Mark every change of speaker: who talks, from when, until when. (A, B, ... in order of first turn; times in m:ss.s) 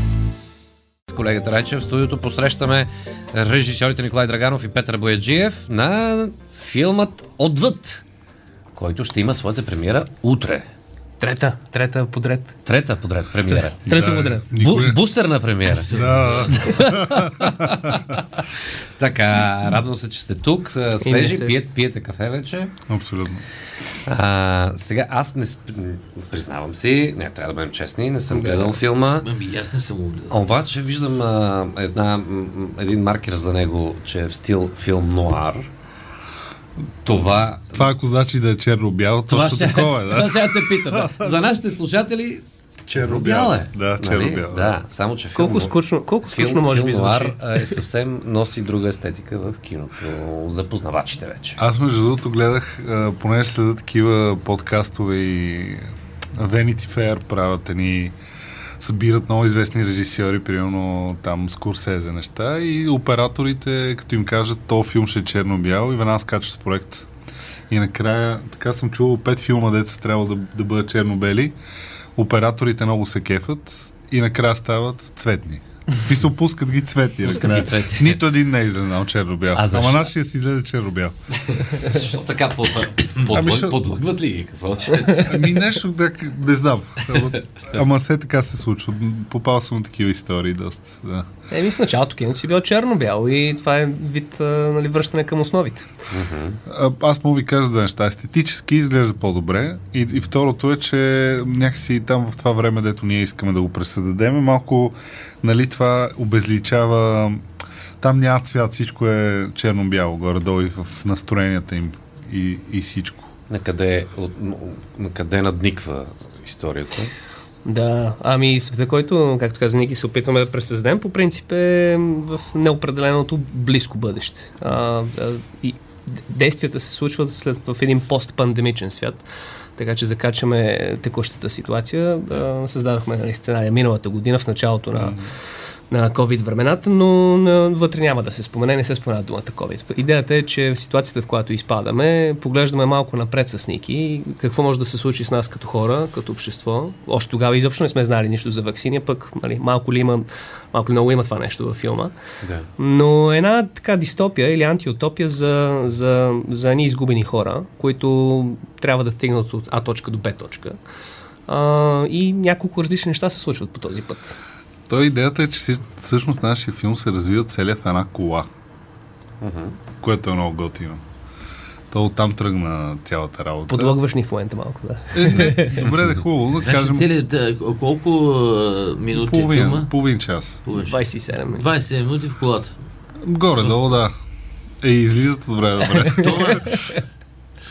0:01.1-0:08.0 A
0:08.8-0:10.7 A
0:11.2-0:12.6 B
0:12.6-0:13.9 A
0:13.8-0:14.5 B
0:13.9-0:15.0 C
0:14.5-0:18.4 A
0:15.6-0:17.1 D
0:15.9-0:18.0 C
0:19.0-0:22.7 A
0:21.0-0:21.7 B
0:22.9-0:23.4 C
0:24.1-0:29.3 A
0:28.3-0:30.5 D
0:30.3-0:35.7 A
0:37.0-0:37.9 A
0:37.7-0:41.3 C
0:39.3-0:42.4 A
0:42.9-0:44.8 C
0:43.0-0:51.6 A
0:45.4-0:47.8 B
0:51.6-0:58.2 C
0:58.8-1:07.1 C
1:07.7-1:11.6 C
1:12.2-1:21.1 C
1:17.2-1:18.2 A
1:19.5-1:20.1 A
1:21.5-1:25.6 A
1:23.3-1:23.8 C
1:25.1-1:31.3 C
1:31.5-1:35.9 B
1:36.1-1:36.6 A
1:36.7-1:47.4 C
1:48.0-1:53.3 C
1:53.5-1:57.1 A
1:57.6-2:09.2 B
2:09.8-2:15.2 B
2:15.0-2:15.3 C
2:15.9-2:32.1 B
2:32.4-2:32.7 A
2:32.8-2:40.8 B
2:41.5-2:44.4 B
2:44.9-2:48.5 C
2:49.4-2:49.8 A
2:50.0-2:51.0 C
2:51.9-2:54.0 C
2:53.7-2:55.9 B
2:55.1-2:57.1 C
2:56.6-2:59.9 D
2:59.1-3:00.6 C
3:00.7-3:01.0 D
3:00.8-3:01.6 B
3:01.5-3:02.8 D
3:03.2-3:04.1 C
3:04.8-3:06.6 C
3:06.1-3:07.0 B
3:06.1-3:06.9 D